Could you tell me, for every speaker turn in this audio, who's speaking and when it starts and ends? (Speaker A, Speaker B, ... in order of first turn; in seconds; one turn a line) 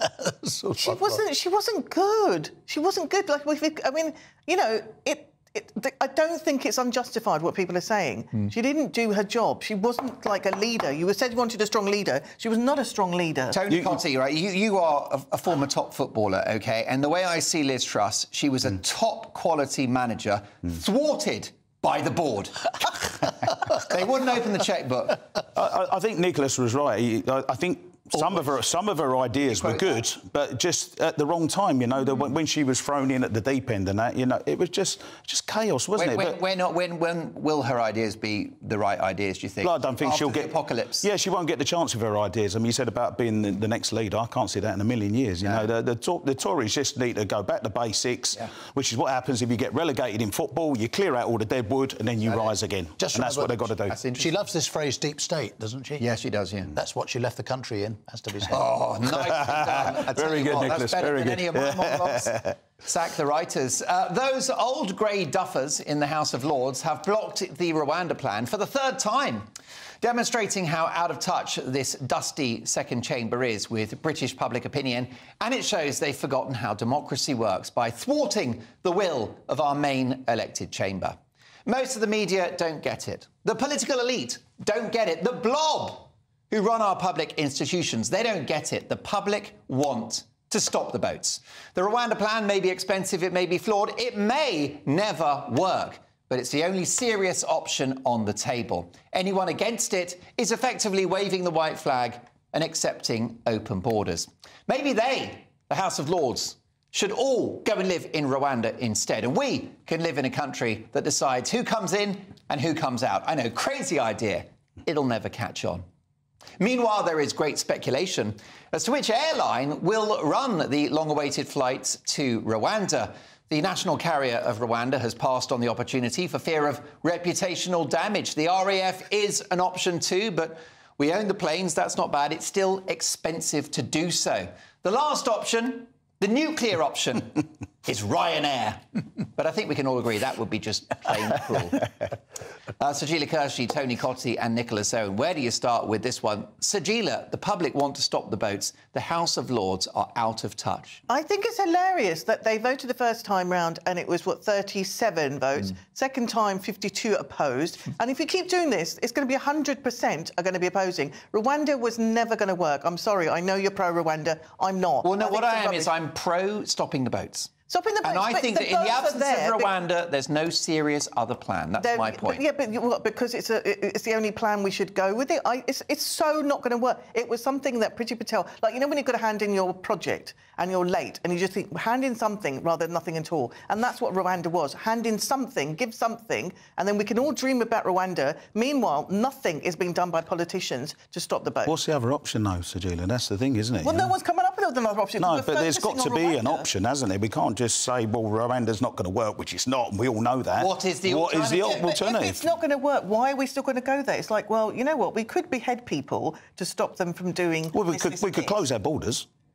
Speaker A: 0.2-0.7
Speaker B: 0.8-13.6
Speaker C: 13.5-22.7
Speaker D: 13.7-14.0
Speaker C: 23.7-25.2
Speaker D: 25.5-36.4
Speaker C: 29.4-30.0
Speaker C: 36.0-41.0
Speaker D: 39.6-54.0
Speaker C: 45.4-45.7
Speaker C: 52.3-52.5
Speaker A: 53.0-56.1
Speaker C: 53.9-54.3
Speaker C: 56.0-56.7
Speaker A: 56.7-58.7
Speaker C: 58.5-69.5
Speaker D: 59.3-62.6
Speaker C: 70.0-115.8
Speaker C: 116.6-138.8
Speaker C: 139.4-141.9
Speaker C: 142.8-151.0
Speaker B: 151.1-165.9
Speaker C: 165.0-167.5
Speaker B: 167.7-169.7
Speaker C: 168.0-172.4
Speaker B: 171.8-191.8
Speaker D: 191.6-194.1
Speaker B: 193.8-196.7
Speaker D: 195.2-202.5
Speaker C: 200.6-201.9
Speaker B: 201.6-208.6
Speaker D: 207.7-209.2